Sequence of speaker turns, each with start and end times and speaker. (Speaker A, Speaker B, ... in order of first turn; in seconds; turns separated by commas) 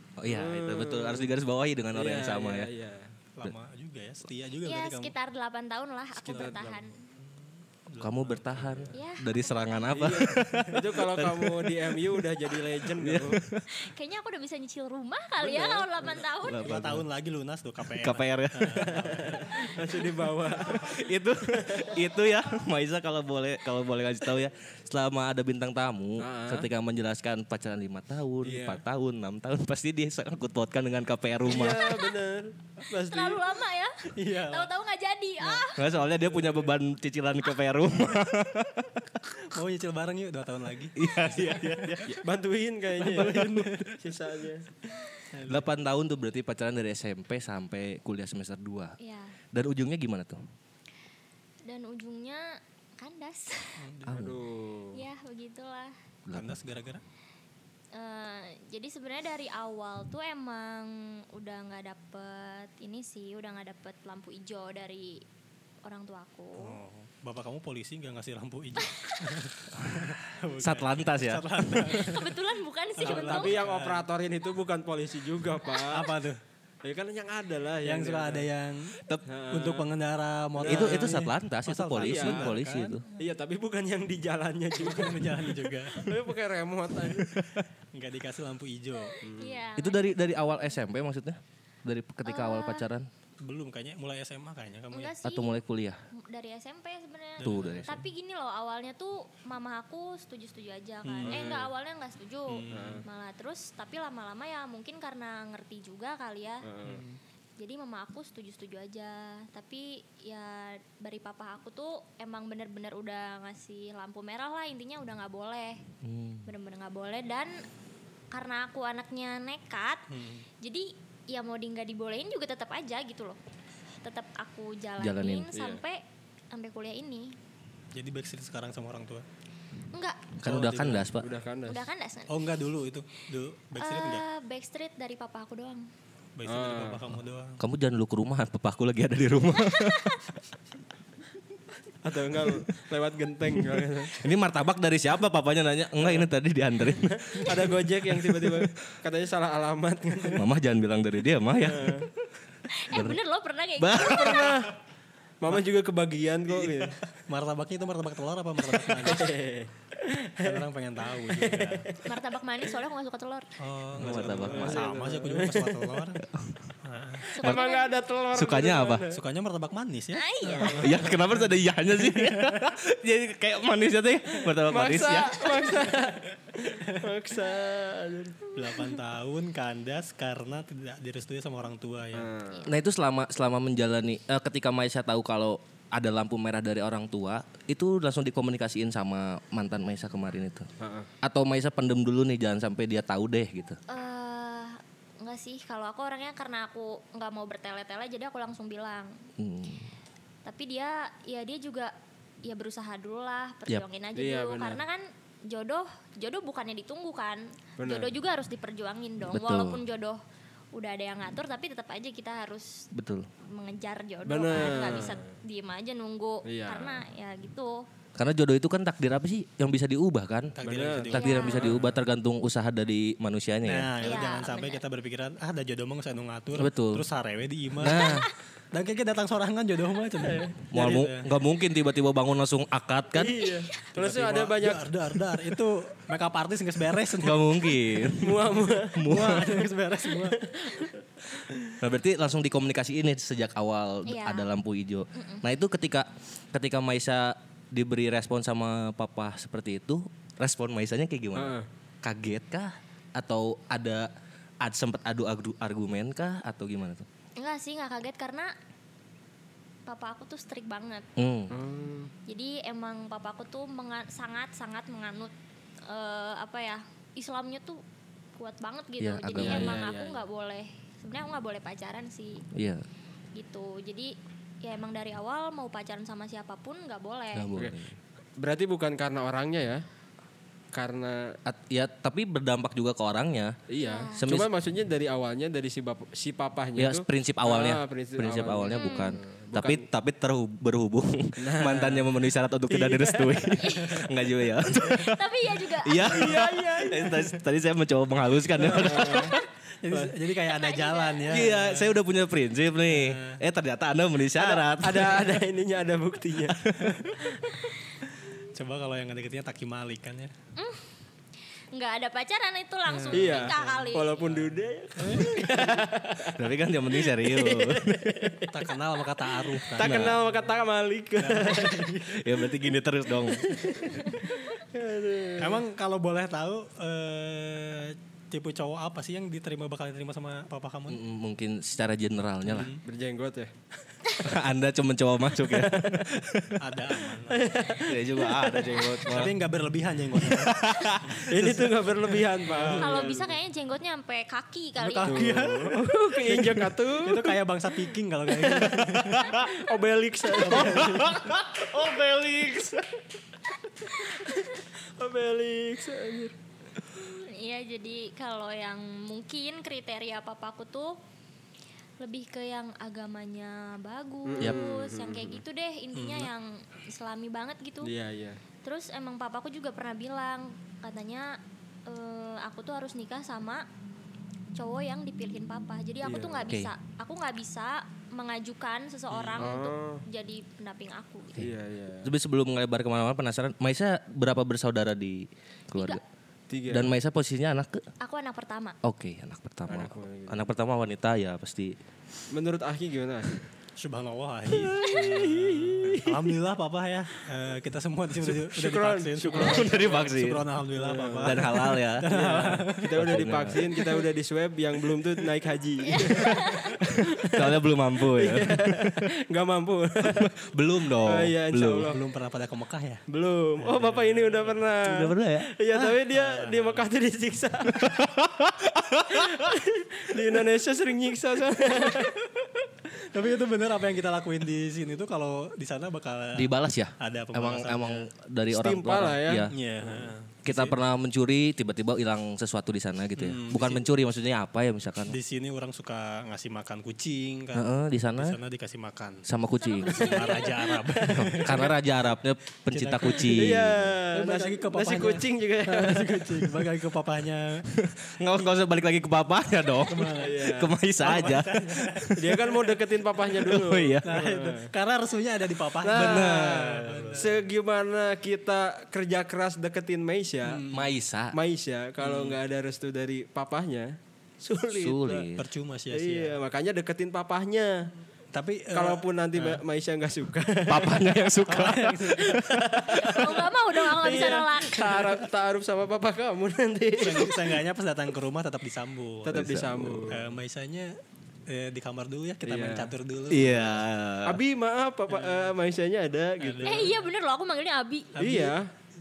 Speaker A: 0.2-2.7, Speaker B: 0.3-1.3, Speaker B: 1.9-3.1, Speaker C: 3.4-5.1, Speaker D: 4.6-7.0, Speaker B: 6.2-6.8, Speaker C: 7.2-8.9, Speaker A: 8.0-13.8, Speaker D: 8.9-9.9, Speaker B: 9.9-13.4, Speaker D: 13.7-16.6, Speaker B: 15.4-16.1, Speaker A: 16.4-17.1, Speaker C: 16.6-19.9, Speaker A: 18.0-19.1, Speaker B: 18.8-21.0, Speaker A: 20.7-31.9, Speaker B: 21.6-22.0, Speaker B: 26.2-26.7, Speaker B: 28.4-28.8, Speaker B: 31.4-33.6, Speaker D: 31.7-32.1, Speaker D: 32.9-35.8, Speaker C: 34.1-34.7, Speaker C: 35.4-35.7, Speaker A: 35.7-39.2, Speaker C: 39.4-42.1, Speaker A: 41.0-42.2, Speaker B: 42.1-44.8, Speaker C: 43.0-44.0, Speaker C: 45.3-45.7, Speaker A: 45.5-49.0, Speaker D: 49.0-49.4, Speaker A: 49.5-50.4, Speaker D: 51.6-53.8, Speaker C: 53.8-54.3, Speaker A: 54.1-54.4, Speaker B: 54.1-55.0, Speaker D: 54.9-56.0, Speaker A: 56.3-56.6, Speaker C: 56.3-57.0, Speaker D: 57.9-65.2, Speaker D: 65.8-66.8, Speaker C: 66.6-72.4, Speaker A: 69.8-72.0, Speaker D: 71.9-73.6, Speaker C: 73.0-74.1, Speaker B: 73.0-76.2, Speaker C: 75.9-76.4, Speaker B: 76.8-78.5, Speaker C: 77.8-83.0, Speaker B: 79.3-79.9, Speaker B: 80.6-81.3, Speaker A: 80.6-83.0, Speaker B: 82.0-82.5, Speaker B: 83.1-87.4, Speaker C: 84.8-86.3, Speaker A: 87.3-87.7, Speaker C: 87.9-89.2, Speaker D: 89.0-90.5, Speaker B: 89.2-89.6, Speaker A: 89.8-93.1, Speaker D: 92.2-92.9, Speaker C: 93.4-95.1, Speaker D: 94.9-95.6, Speaker A: 95.2-96.0, Speaker D: 96.1-106.7, Speaker C: 97.4-98.0, Speaker A: 97.4-98.0, Speaker C: 101.0-101.6, Speaker B: 101.3-101.7, Speaker C: 102.5-103.0, Speaker B: 102.7-103.0, Speaker B: 106.6-107.0, Speaker C: 106.8-107.2, Speaker D: 107.6-115.8, Speaker A: 116.0-116.5, Speaker D: 116.5-117.7, Speaker D: 118.3-120.1, Speaker C: 120.1-120.5, Speaker D: 120.6-123.4, Speaker D: 124.0-127.4, Speaker A: 125.0-125.5, Speaker B: 125.5-125.8, Speaker C: 127.9-129.2, Speaker D: 129.9-130.3, Speaker A: 130.4-131.3, Speaker C: 130.4-131.1, Speaker B: 131.2-131.9, Speaker D: 131.7-132.4, Speaker C: 132.3-134.2, Speaker D: 133.8-135.9, Speaker C: 136.4-137.6, Speaker B: 136.4-137.0, Speaker A: 137.6-140.2, Speaker D: 139.6-140.2, Speaker B: 142.0-144.2, Speaker A: 144.1-148.7, Speaker B: 147.0-150.5, Speaker A: 150.4-152.0, Speaker B: 151.6-152.1, Speaker D: 152.7-154.5, Speaker A: 152.9-153.2, Speaker A: 153.8-154.7, Speaker B: 153.9-154.7, Speaker B: 155.4-157.0, Speaker C: 157.3-159.3, Speaker B: 158.8-162.0, Speaker C: 160.4-161.9, Speaker D: 162.1-163.5, Speaker C: 163.6-166.2, Speaker A: 164.0-164.9, Speaker B: 164.0-166.0, Speaker A: 166.4-166.7, Speaker C: 166.8-167.3, Speaker B: 167.3-169.2, Speaker D: 167.3-167.9, Speaker A: 168.3-169.1, Speaker C: 169.1-172.7, Speaker D: 170.1-170.9, Speaker A: 170.8-175.6, Speaker B: 174.7-178.4, Speaker D: 175.4-175.7, Speaker D: 178.5-178.9, Speaker C: 178.5-182.3, Speaker B: 182.2-182.7, Speaker A: 182.7-190.7, Speaker B: 190.8-191.1, Speaker A: 191.2-193.8, Speaker D: 193.9-199.2, Speaker A: 199.4-199.9, Speaker D: 200.4-201.9, Speaker D: 202.4-210.2, Speaker B: 204.2-204.8, Speaker B: 207.8-208.1, Speaker A: 209.3-209.8, Speaker D: 210.7-212.9, Speaker A: 212.9-213.3, Speaker D: 213.4-217.9, Speaker B: 214.3-215.3, Speaker B: 216.4-217.0, Speaker A: 218.2-220.6, Speaker C: 220.6-221.9, Speaker B: 220.6-221.8, Speaker A: 221.1-223.9, Speaker D: 221.1-221.8, Speaker C: 223.7-231.3, Speaker D: 224.0-224.8, Speaker A: 226.6-227.1, Speaker A: 227.8-228.3, Speaker D: 228.0-228.3, Speaker B: 230.2-230.6, Speaker A: 230.7-233.4, Speaker B: 233.1-234.9, Speaker D: 233.4-233.8, Speaker C: 233.9-238.1, Speaker A: 237.2-239.6, Speaker B: 238.1-239.5, Speaker C: 239.0-240.4, Speaker B: 240.1-241.5, Speaker A: 241.8-254.1, Speaker D: 244.1-244.5, Speaker D: 245.1-245.4, Speaker B: 251.4-251.7, Speaker A: 254.6-257.1, Speaker D: 257.4-258.5, Speaker D: 259.9-261.1, Speaker A: 261.2-261.5, Speaker B: 261.5-262.1, Speaker D: 262.3-265.3, Speaker D: 265.9-267.8, Speaker D: 268.4-272.4, Speaker A: 269.0-269.8, Speaker B: 269.4-270.2, Speaker A: 272.5-272.8, Speaker D: 273.3-277.5, Speaker A: 277.3-278.0, Speaker B: 278.4-279.9, Speaker B: 280.7-281.4, Speaker A: 281.4-283.6, Speaker B: 283.7-289.8, Speaker D: 283.8-284.2, Speaker A: 284.2-284.5, Speaker A: 286.8-299.4, Speaker D: 288.7-289.2, Speaker B: 291.4-292.1, Speaker B: 292.7-293.6, Speaker D: 293.6-294.0, Speaker D: 294.8-296.4, Speaker B: 296.0-297.4, Speaker B: 298.6-300.1, Speaker C: 299.8-302.0, Speaker D: 300.4-301.4, Speaker A: 301.3-305.4, Speaker C: 302.9-303.4, Speaker B: 304.4-307.5, Speaker A: 306.6-306.9, Speaker C: 306.8-307.2, Speaker C: 308.1-310.3, Speaker D: 310.6-310.9, Speaker D: 311.7-314.4, Speaker C: 313.1-313.6, Speaker B: 313.1-318.7, Speaker C: 315.0-315.5, Speaker A: 316.3-318.2, Speaker C: 318.5-320.2, Speaker B: 319.6-321.9, Speaker A: 319.8-320.2, Speaker C: 321.2-322.4, Speaker A: 322.1-323.6, Speaker B: 323.3-325.6, Speaker C: 325.4-331.0, Speaker A: 330.9-332.7, Speaker C: 332.5-332.8, Speaker B: 332.8-333.5, Speaker A: 334.2-336.6, Speaker B: 335.4-336.1, Speaker C: 336.6-337.5, Speaker B: 337.3-339.1, Speaker A: 337.8-339.4, Speaker C: 339.1-343.2, Speaker A: 340.1-341.2, Speaker B: 341.2-343.4, Speaker D: 342.7-345.3, Speaker C: 344.8-349.4, Speaker B: 345.0-347.4, Speaker B: 348.3-351.2, Speaker A: 348.9-349.5, Speaker C: 350.4-351.1, Speaker A: 350.5-352.9, Speaker B: 353.9-356.4, Speaker D: 356.9-361.0, Speaker D: 362.0-367.9, Speaker B: 364.3-365.4, Speaker C: 365.9-366.3, Speaker B: 367.8-368.4, Speaker D: 368.6-373.7, Speaker D: 374.6-381.4, Speaker B: 376.0-376.5, Speaker B: 379.2-380.0, Speaker B: 381.4-382.1, Speaker A: 382.0-386.0, Speaker D: 385.8-386.0, Speaker B: 386.5-386.9, Speaker A: 386.7-387.8, Speaker D: 388.0-388.8, Speaker A: 388.8-391.8, Speaker B: 389.7-390.5, Speaker B: 392.3-393.4, Speaker C: 393.8-403.4, Speaker B: 394.6-396.3, Speaker D: 394.8-395.1, Speaker B: 398.2-400.1, Speaker A: 399.3-400.4, Speaker B: 400.8-410.3, Speaker A: 401.2-402.1, Speaker A: 402.9-403.7, Speaker D: 405.9-406.8, Speaker A: 406.9-409.1, Speaker A: 410.0-411.9, Speaker B: 411.0-412.0, Speaker C: 411.9-413.0, Speaker B: 413.1-417.9, Speaker C: 413.6-414.6, Speaker A: 414.9-415.5, Speaker C: 415.7-416.9, Speaker A: 417.8-419.5, Speaker B: 419.1-422.2, Speaker C: 421.8-428.1, Speaker A: 426.4-429.5, Speaker B: 428.5-430.1, Speaker C: 429.5-430.8, Speaker A: 430.5-435.2, Speaker C: 433.2-433.9, Speaker C: 435.1-439.3, Speaker A: 437.5-438.4, Speaker A: 439.3-440.3, Speaker D: 439.6-440.4, Speaker C: 439.9-441.8, Speaker B: 440.6-441.7, Speaker A: 441.1-444.0, Speaker C: 442.7-447.7, Speaker B: 443.2-446.7, Speaker A: 447.7-452.3, Speaker C: 449.9-452.1, Speaker B: 450.2-450.7, Speaker B: 452.1-454.7, Speaker A: 453.4-454.1, Speaker C: 454.0-457.4, Speaker B: 455.8-460.6, Speaker A: 455.9-456.8, Speaker C: 460.4-460.9, Speaker A: 460.7-461.4, Speaker B: 461.3-465.3, Speaker C: 462.0-462.4, Speaker A: 464.7-465.4, Speaker C: 465.4-466.4, Speaker B: 465.9-467.9, Speaker C: 468.3-469.6, Speaker B: 468.7-471.1, Speaker A: 470.7-473.2, Speaker C: 471.4-472.4, Speaker B: 472.2-477.5, Speaker D: 473.0-475.1, Speaker C: 477.0-479.4, Speaker B: 479.2-480.2, Speaker A: 479.3-480.1, Speaker C: 480.1-481.0, Speaker C: 481.5-483.8, Speaker B: 482.4-482.9, Speaker A: 483.3-484.4, Speaker B: 484.2-487.0, Speaker C: 485.1-485.5, Speaker C: 486.4-487.0, Speaker D: 486.6-488.1, Speaker C: 488.2-488.6, Speaker B: 488.2-488.7